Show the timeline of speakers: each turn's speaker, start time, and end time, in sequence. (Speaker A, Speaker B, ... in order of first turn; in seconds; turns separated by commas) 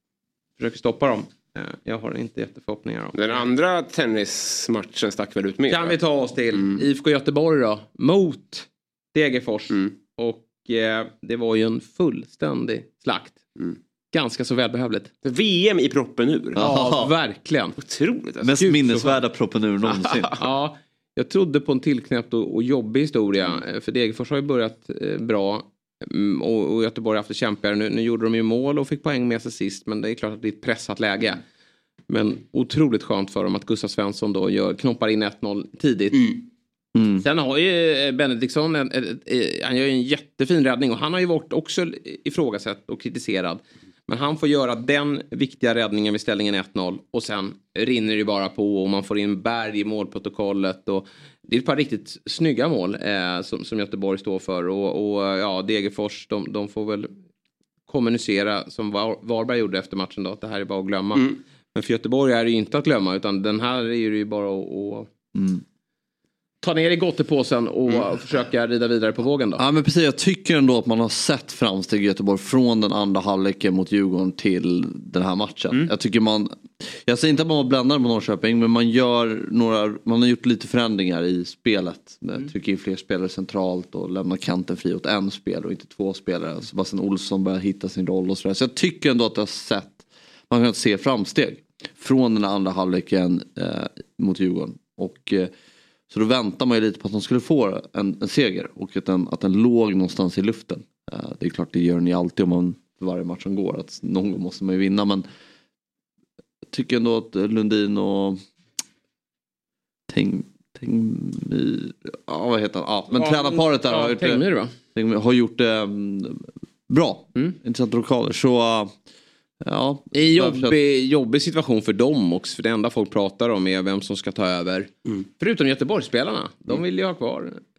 Speaker A: 0.6-3.4, Speaker B: 3.1-6.0, Speaker A: 5.7-13.4, Speaker B: 6.5-6.8, Speaker A: 14.1-15.1, Speaker B: 15.2-16.6, Speaker C: 16.5-17.1, Speaker A: 16.6-17.8, Speaker B: 17.8-18.6, Speaker C: 18.4-20.3, Speaker A: 18.6-19.2, Speaker B: 19.9-20.4, Speaker A: 20.4-31.4, Speaker A: 32.1-36.4, Speaker C: 36.9-37.2, Speaker A: 37.2-57.1, Speaker A: 57.9-65.1, Speaker C: 65.3-65.6, Speaker A: 66.6-69.6, Speaker C: 69.6-95.5, Speaker C: 96.1-105.2, Speaker C: 106.7-108.4, Speaker C: 110.1-114.4, Speaker A: 113.1-114.7, Speaker C: 114.9-118.9, Speaker C: 119.6-120.8, Speaker A: 120.1-127.6